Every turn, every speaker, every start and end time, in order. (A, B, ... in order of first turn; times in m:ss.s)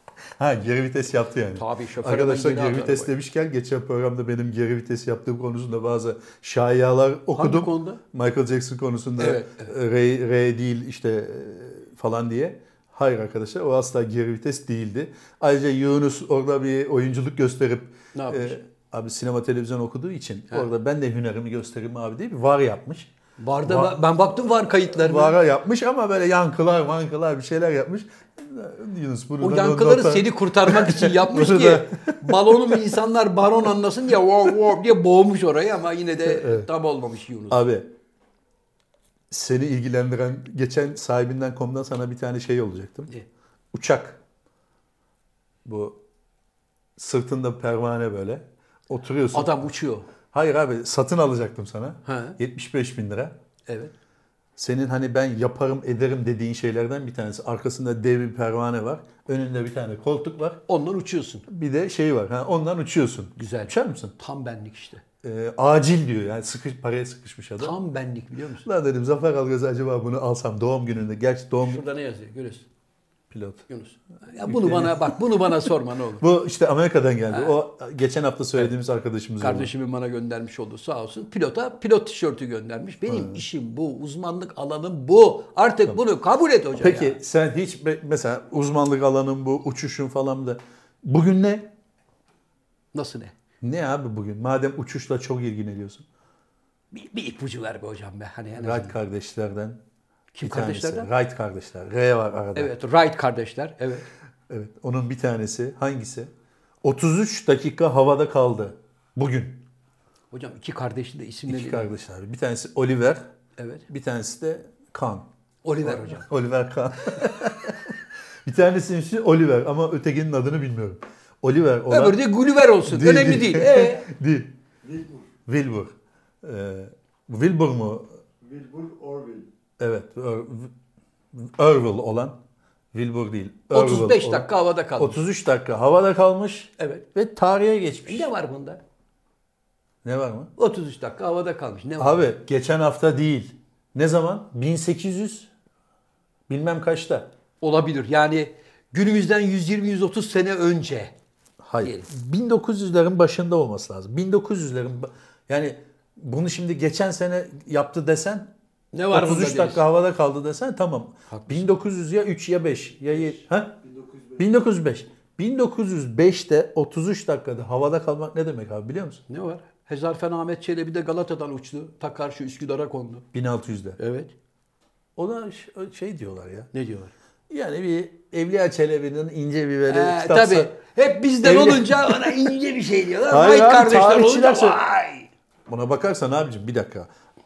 0:00.4-0:23.1 A
0:01.6-0:03.1 B
0:07.4-0:08.0 B
0:09.2-0:09.7 B
0:18.1-0:18.6 B
0:23.4-0:25.4 B
0:23.6-0:32.9 A
0:29.4-0:37.6 B
0:36.2-0:36.7 A
0:37.5-0:37.9 A
0:39.3-0:43.1 A
0:43.7-0:44.2 A
0:45.6-0:46.0 A
0:47.0-0:49.7 A
0:49.3-0:50.1 B
0:50.3-0:53.3 A
0:52.0-0:52.4 B
0:53.7-0:53.9 B
0:54.6-1:00.6 A
1:00.7-1:01.4 B
1:01.5-1:04.1 A
1:03.4-1:05.0 B
1:05.2-1:07.8 A
1:07.6-1:08.7 B
1:08.6-1:11.8 A
1:11.6-1:12.7 B
1:13.3-1:13.7 A
1:13.7-1:16.2 B
1:14.4-1:15.5 A
1:16.2-1:19.7 A
1:17.3-1:17.6 B
1:19.4-1:27.2 B
1:23.1-1:23.4 A
1:26.8-1:31.7 A
1:32.9-1:33.3 B
1:33.6-1:36.0 A
1:36.9-1:39.0 B
1:38.6-1:39.8 A
1:40.3-1:41.1 B
1:40.4-1:42.7 A
1:42.6-1:44.1 B
1:44.5-1:46.3 A
1:46.8-1:49.6 A
1:50.3-1:51.9 B
1:51.5-1:53.2 A
1:53.6-1:53.8 B
1:53.9-1:55.3 A
1:55.6-1:56.3 B
1:55.8-2:02.2 A
2:01.9-2:04.1 B
2:02.8-2:04.5 A
2:04.8-2:05.2 C
2:05.4-2:08.1 A
2:08.4-2:09.5 C
2:09.8-2:10.7 A
2:11.3-2:12.4 A
2:12.9-2:18.3 A
2:13.7-2:15.2 B
2:16.8-2:17.0 B
2:18.0-2:18.8 B
2:20.0-2:20.5 A
2:20.6-2:22.3 B
2:22.0-2:25.5 A
2:26.5-2:27.3 A
2:27.6-2:31.1 B
2:31.6-2:38.5 A
2:31.8-2:32.1 B
2:38.9-2:39.8 B
2:39.1-2:43.8 A
2:41.3-2:41.7 B
2:43.8-2:44.4 C
2:44.4-2:49.2 A
2:49.3-2:53.3 B
2:53.3-2:54.0 A
2:54.0-2:54.3 B
2:55.2-2:56.7 A
2:56.7-2:57.1 B
2:57.5-3:00.7 A
2:59.9-3:05.3 B
3:01.4-3:02.4 A
3:03.3-3:04.8 A
3:05.7-3:07.1 A